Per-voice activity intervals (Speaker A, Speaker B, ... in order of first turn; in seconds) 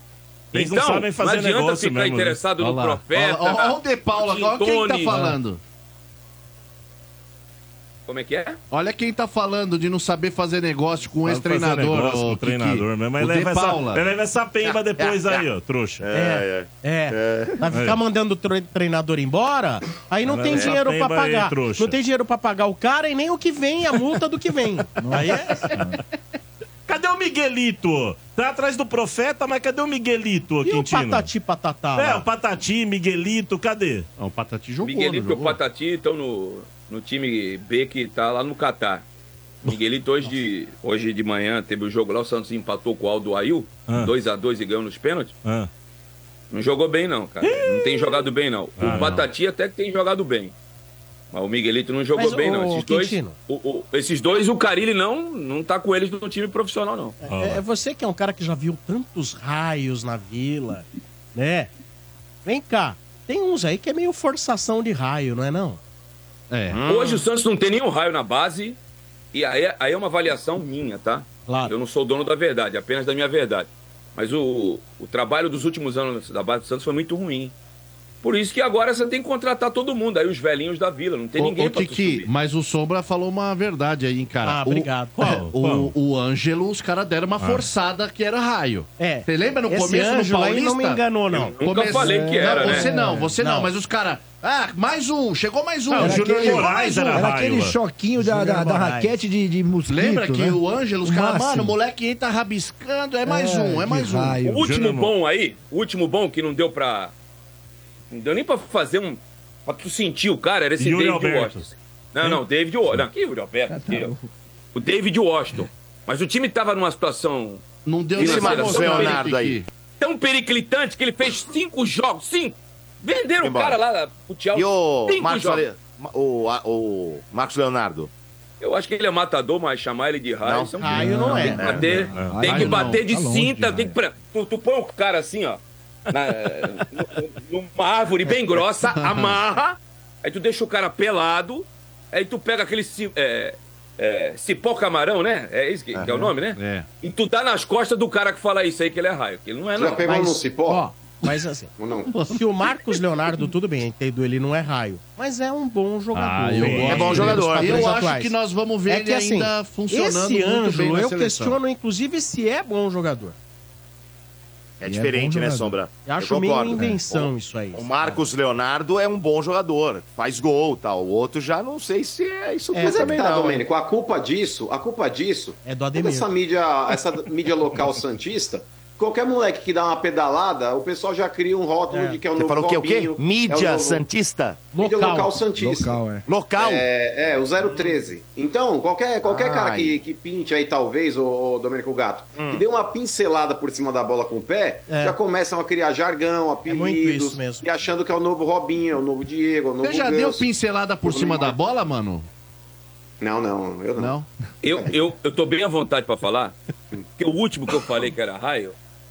Speaker A: 0.5-2.4, 11.2-16.0, 17.7-18.0, 20.2-22.0, 26.9-31.3, 32.0-34.1, 45.4-45.7, 47.4-47.9, 48.8-49.3, 57.3-57.6, 85.4-85.9, 87.4-87.7, 96.0-97.8, 104.5-105.1, 110.8-111.7, 132.1-132.5, 156.6-157.4
Speaker B: 0.5-5.2, 8.1-8.6, 34.8-39.0, 39.6-45.4, 46.5-50.5, 51.3-57.2, 66.8-68.8, 69.3-77.5, 78.2-82.3, 91.4-92.9, 104.5-107.1, 108.1-114.1, 114.8-117.6, 118.2-119.2, 120.0-125.7, 128.6-139.7, 140.2-150.1, 204.6-206.6, 207.2-208.8
Speaker C: 2.6-5.6, 8.7-14.1, 34.2-35.6, 66.5-66.8, 81.4-91.0, 91.6-97.3, 99.9-104.4, 117.9-119.7, 132.5-133.0, 138.8-139.4, 146.0-146.9, 156.1-161.6, 199.8-202.3, 204.0-204.3
Speaker D: 14.6-15.5, 16.0-17.6, 66.7-67.2, 118.2-119.6, 123.4-123.8, 124.5-128.1, 130.4-130.8, 156.9-157.9, 164.8-173.7, 182.4-184.7, 186.3-186.9, 189.2-190.0
Speaker E: 16.1-25.7, 30.6-32.3, 52.2-53.4, 57.2-61.7, 62.5-65.8, 71.5-71.7, 84.4-85.5, 89.0-91.6, 93.4-93.7, 95.9-96.3, 98.2-99.2, 130.8-131.7, 150.1-151.7, 152.3-158.3, 158.9-163.3, 166.1-167.9, 172.7-173.2, 175.6-176.3, 181.9-182.2, 184.7-185.3, 194.9-195.2, 196.7-197.7
Speaker F: 25.0-26.0, 92.0-93.3, 96.0-101.8, 103.2-104.7, 113.7-114.3, 130.8-134.0, 164.8-165.8, 185.6-186.3
Speaker G: 149.8-150.8, 151.8-152.1, 172.8-184.1, 184.7-200.5, 201.0-201.6, 203.2-204.1